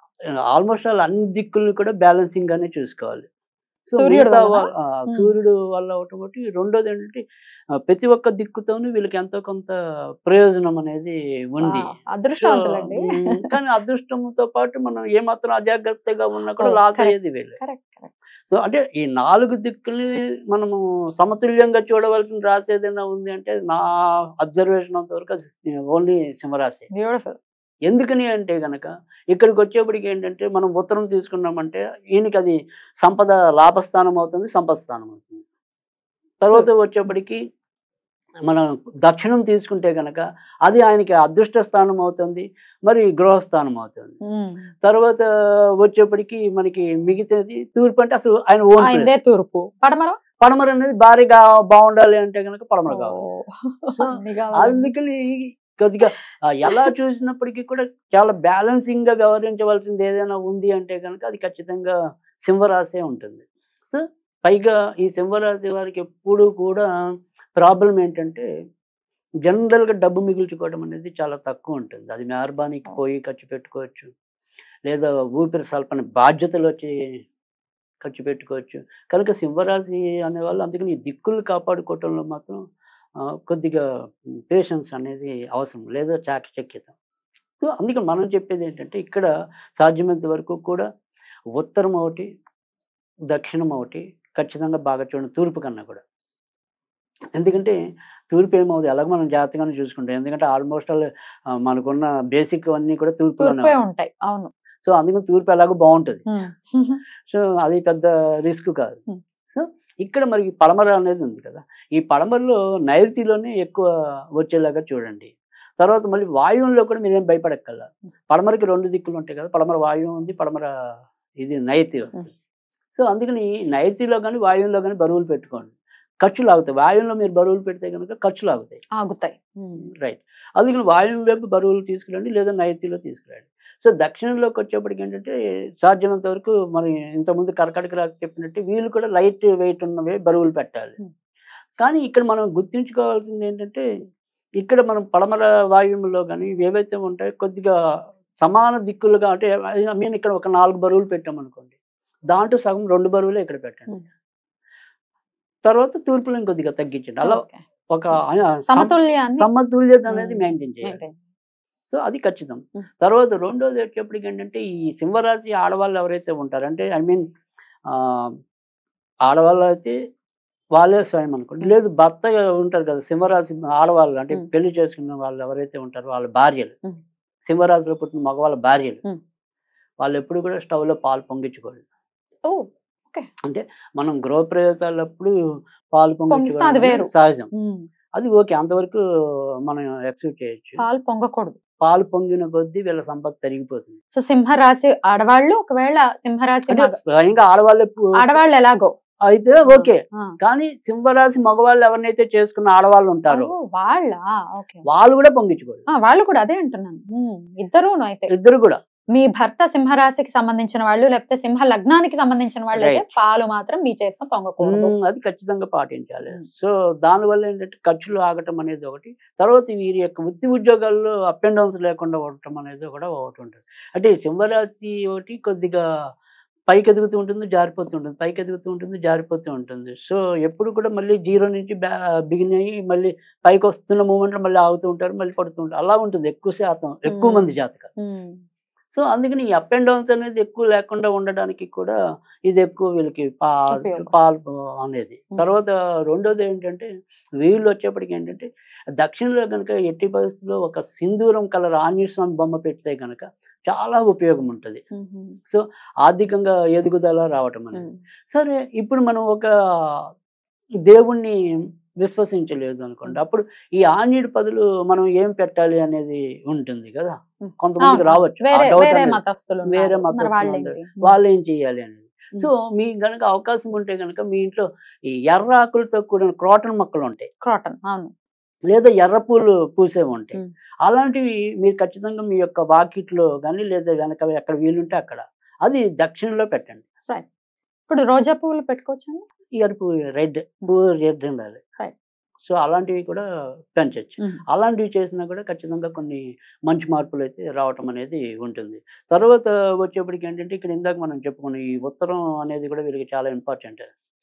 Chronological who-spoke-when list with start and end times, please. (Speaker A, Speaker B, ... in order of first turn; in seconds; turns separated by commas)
Speaker A: 0.5-3.3, Speaker A: 3.9-7.2, Speaker B: 4.0-5.3, Speaker A: 7.9-11.9, Speaker B: 11.6-13.4, Speaker A: 12.4-17.6, Speaker B: 16.6-18.1, Speaker A: 18.5-23.8, Speaker A: 24.4-26.9, Speaker B: 26.9-27.4, Speaker A: 27.9-35.4, Speaker A: 36.4-37.4, Speaker A: 38.5-44.1, Speaker B: 44.3-44.7, Speaker A: 44.8-45.3, Speaker A: 45.8-49.1, Speaker B: 48.8-50.2, Speaker A: 50.4-53.2, Speaker B: 52.9-54.9, Speaker A: 53.9-66.9, Speaker A: 67.6-68.5, Speaker A: 69.5-74.1, Speaker A: 74.9-76.9, Speaker A: 78.0-82.6, Speaker A: 83.5-83.8, Speaker A: 84.5-87.0, Speaker A: 87.6-89.3, Speaker A: 89.8-90.9, Speaker A: 91.6-92.3, Speaker A: 93.3-96.0, Speaker A: 97.3-97.8, Speaker A: 98.3-101.1, Speaker A: 101.6-103.8, Speaker B: 103.4-104.5, Speaker A: 104.8-106.2, Speaker B: 106.3-107.0, Speaker A: 107.3-109.0, Speaker A: 109.5-113.9, Speaker A: 114.4-120.7, Speaker A: 121.4-122.3, Speaker A: 123.0-128.8, Speaker B: 129.0-129.9, Speaker A: 130.0-141.0, Speaker A: 141.8-143.8, Speaker A: 144.6-147.7, Speaker A: 148.4-151.8, Speaker A: 152.3-154.0, Speaker A: 155.7-161.0, Speaker B: 157.2-157.6, Speaker B: 158.7-159.5, Speaker B: 160.1-161.1, Speaker A: 161.9-167.2, Speaker A: 167.9-168.3, Speaker A: 169.3-169.9, Speaker A: 170.8-176.8, Speaker A: 177.5-179.0, Speaker A: 180.0-181.8, Speaker B: 182.4-183.3, Speaker A: 183.4-185.3, Speaker A: 185.9-187.5, Speaker B: 186.3-187.8, Speaker A: 188.2-189.0, Speaker A: 189.7-190.8, Speaker B: 190.8-191.6, Speaker A: 191.8-194.0, Speaker B: 194.2-197.0, Speaker A: 196.7-198.1, Speaker B: 198.2-198.9, Speaker A: 199.3-203.5, Speaker B: 199.7-200.3, Speaker B: 203.3-204.8, Speaker A: 204.9-205.9, Speaker B: 206.0-208.3, Speaker A: 208.3-208.8, Speaker B: 209.1-214.9, Speaker A: 212.7-213.1, Speaker A: 214.6-225.8, Speaker A: 226.7-237.9, Speaker B: 237.1-238.4, Speaker A: 238.9-242.0, Speaker A: 242.5-246.9, Speaker B: 243.7-244.1, Speaker A: 247.4-248.5, Speaker A: 249.0-254.8, Speaker B: 254.9-255.4, Speaker A: 255.5-259.5, Speaker B: 257.7-258.0, Speaker A: 260.9-261.4, Speaker A: 262.0-277.3, Speaker B: 267.4-271.2, Speaker B: 277.4-278.1, Speaker A: 278.7-286.8, Speaker B: 287.9-289.2, Speaker A: 289.6-291.6, Speaker A: 292.4-303.9